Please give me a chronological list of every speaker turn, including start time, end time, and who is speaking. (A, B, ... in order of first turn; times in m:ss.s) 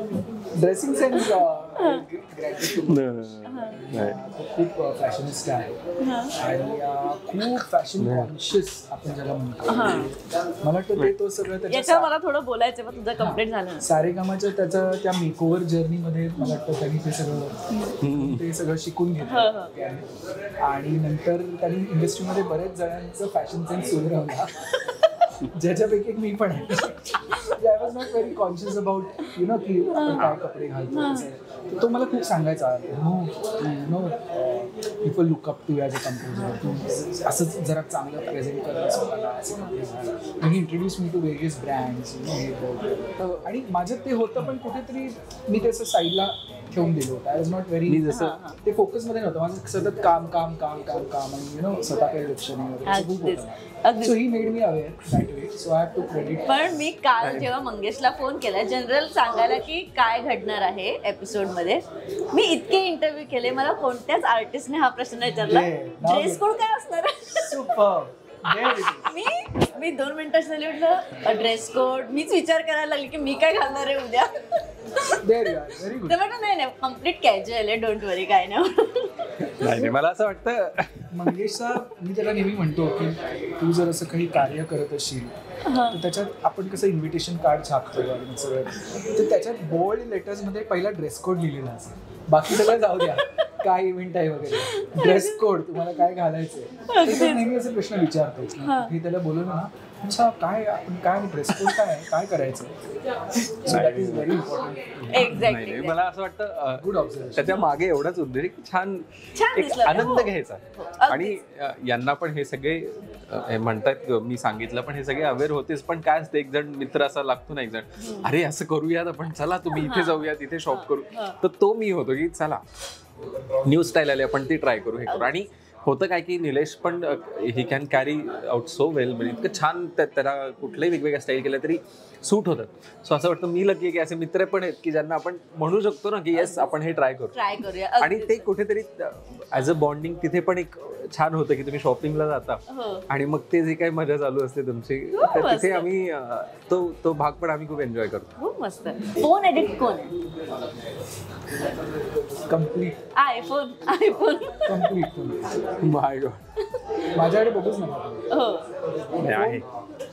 0:00.3-0:03.1 A
0:01.8-0:02.0 B
0:02.7-0:04.2 C
0:03.4-0:03.8 B
0:03.6-0:05.8 A
0:06.0-0:06.3 B
0:06.3-0:12.1 A
0:08.0-0:08.3 C
0:09.7-0:10.1 B
0:11.7-0:13.9 B
0:13.2-0:48.1 A
0:18.0-0:18.4 C
0:19.2-0:19.7 B
0:29.9-0:30.3 B
0:30.9-0:31.2 B
0:36.3-0:36.8 B
0:43.2-0:43.5 C
0:47.9-0:48.4 C
0:48.1-0:48.6 B
0:48.6-0:56.7 A
0:52.8-0:54.2 B
0:56.4-1:07.6 B
0:57.2-0:57.5 C
1:05.3-1:06.5 A
1:07.3-1:09.1 A
1:08.5-1:19.9 B
1:15.2-1:16.2 A
1:19.4-1:21.4 C
1:21.1-1:45.5 A
1:25.6-1:26.0 B
1:32.6-1:33.5 B
1:34.5-1:35.5 B
1:36.9-1:37.5 B
1:38.6-1:38.9 B
1:43.4-1:44.4 C
1:45.1-1:46.0 B
1:45.2-2:02.6 C
1:46.8-1:47.7 A
1:49.3-1:51.4 B
1:58.0-1:58.3 B
1:59.7-2:01.4 B
2:03.6-2:17.4 C
2:05.0-2:05.3 B
2:09.2-2:09.5 B
2:16.3-2:16.7 B
2:17.3-2:18.4 B
2:18.0-2:28.3 C
2:22.7-2:23.0 B
2:25.1-2:25.9 B
2:28.4-2:30.1 B
2:32.5-2:33.0 A
2:33.1-2:35.0 B
2:34.6-2:35.7 A
2:35.8-2:36.4 C
2:37.1-2:38.3 A
2:38.3-2:38.7 B
2:39.1-2:39.6 A
2:39.2-2:39.6 C